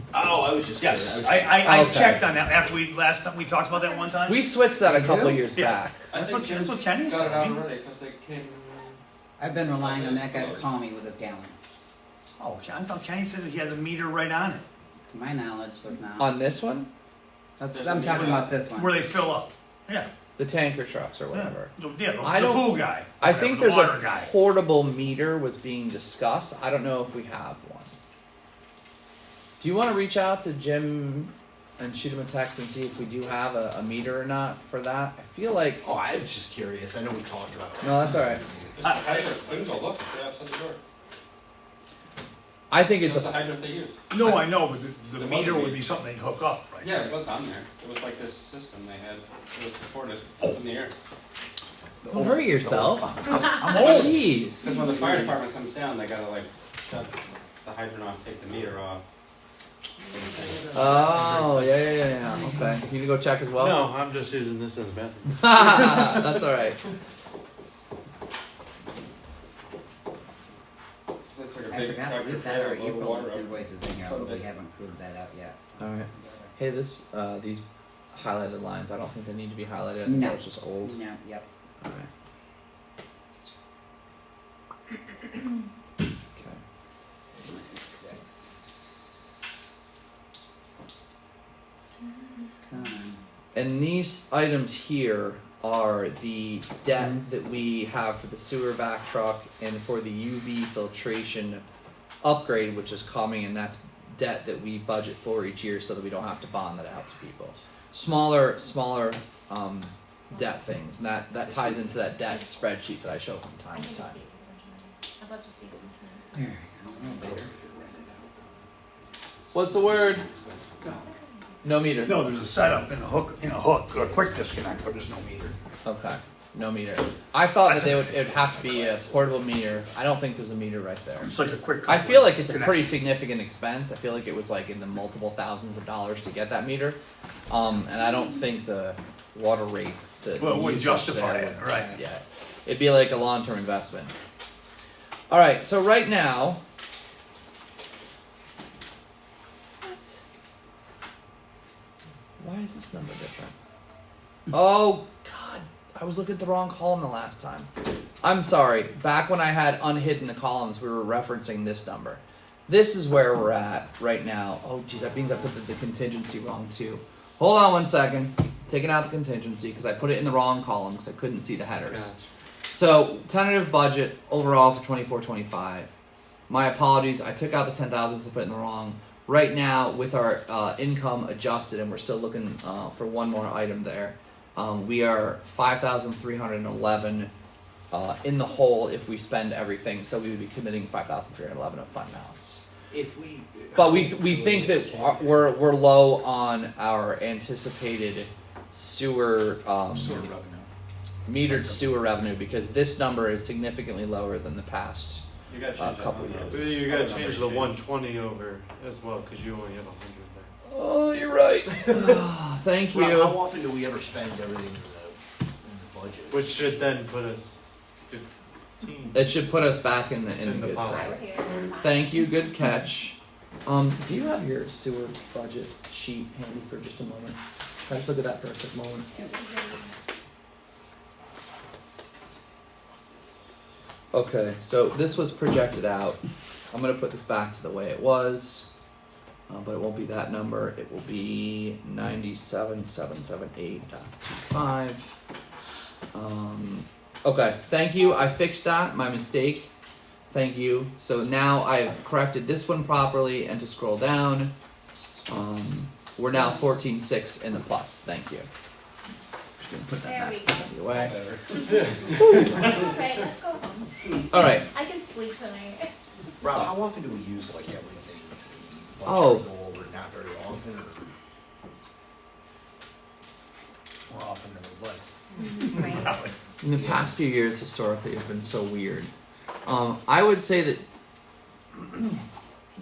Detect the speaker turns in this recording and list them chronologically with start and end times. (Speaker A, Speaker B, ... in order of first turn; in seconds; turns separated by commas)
Speaker A: 0.1-1.8, Speaker B: 0.8-4.9, Speaker C: 1.6-2.2, Speaker C: 4.2-6.0, Speaker D: 4.9-5.4, Speaker B: 5.5-7.6, Speaker E: 6.1-9.0, Speaker D: 9.4-11.7, Speaker E: 9.7-10.7, Speaker B: 12.4-14.7, Speaker D: 15.1-16.3, Speaker C: 16.2-16.9, Speaker D: 17.6-19.0, Speaker E: 17.7-18.6, Speaker B: 18.6-20.1, Speaker C: 20.4-27.9, Speaker B: 21.3-24.3, Speaker C: 29.6-35.8, Speaker A: 35.8-39.3, Speaker C: 37.8-38.4, Speaker E: 38.8-40.8, Speaker B: 38.8-39.1, Speaker C: 42.7-43.4, Speaker E: 43.0-44.0, Speaker B: 44.1-47.0, Speaker C: 44.2-44.6, Speaker E: 45.2-45.9, Speaker E: 46.8-50.9, Speaker A: 52.0-53.4, Speaker C: 52.1-54.9, Speaker B: 53.3-54.2, Speaker E: 54.6-59.0, Speaker E: 60.1-60.9, Speaker C: 60.7-63.8, Speaker F: 63.6-66.3, Speaker C: 65.4-66.8, Speaker E: 71.2-74.5, Speaker D: 71.7-76.5, Speaker C: 75.8-81.0, Speaker D: 80.0-81.5, Speaker C: 81.8-82.1, Speaker D: 87.5-88.2, Speaker D: 92.7-93.2, Speaker C: 93.5-101.6, Speaker C: 102.2-114.2, Speaker G: 113.7-116.7, Speaker D: 116.3-117.5, Speaker A: 116.9-121.1, Speaker C: 119.5-120.2, Speaker G: 121.0-121.5, Speaker C: 121.6-122.2, Speaker B: 122.0-125.5, Speaker C: 125.8-144.1, Speaker A: 127.9-129.9, Speaker B: 131.3-132.9, Speaker B: 140.4-142.0, Speaker C: 145.3-146.6, Speaker C: 149.8-150.2, Speaker C: 152.4-153.5, Speaker C: 154.5-157.7, Speaker C: 158.2-172.1, Speaker F: 171.8-172.2, Speaker C: 172.7-175.9, Speaker C: 176.5-187.3, Speaker C: 187.9-192.6, Speaker A: 192.9-195.5, Speaker C: 193.7-200.3, Speaker A: 199.9-200.7, Speaker C: 201.2-205.2, Speaker A: 201.5-201.8, Speaker E: 205.5-207.8, Speaker C: 205.8-206.7, Speaker F: 206.5-210.5, Speaker C: 210.6-213.4, Speaker A: 212.9-216.5, Speaker F: 216.3-218.2, Speaker F: 218.8-219.2, Speaker C: 219.1-221.2, Speaker F: 220.4-221.2, Speaker G: 220.9-221.8, Speaker C: 221.8-229.3, Speaker G: 229.2-229.9, Speaker C: 234.1-236.2, Speaker C: 236.7-238.7, Speaker C: 239.5-245.2, Speaker C: 246.1-249.7, Speaker C: 250.3-254.5, Speaker C: 255.3-258.5, Speaker C: 259.6-261.1, Speaker G: 260.0-260.7, Speaker E: 260.9-262.2, Speaker C: 262.1-262.6, Speaker G: 262.6-265.9, Speaker C: 264.3-264.7, Speaker A: 266.4-271.1, Speaker C: 269.0-269.4, Speaker B: 274.1-275.0, Speaker B: 275.6-276.1, Speaker C: 276.6-279.1, Speaker A: 276.7-277.1, Speaker C: 279.6-280.8, Speaker C: 281.7-282.2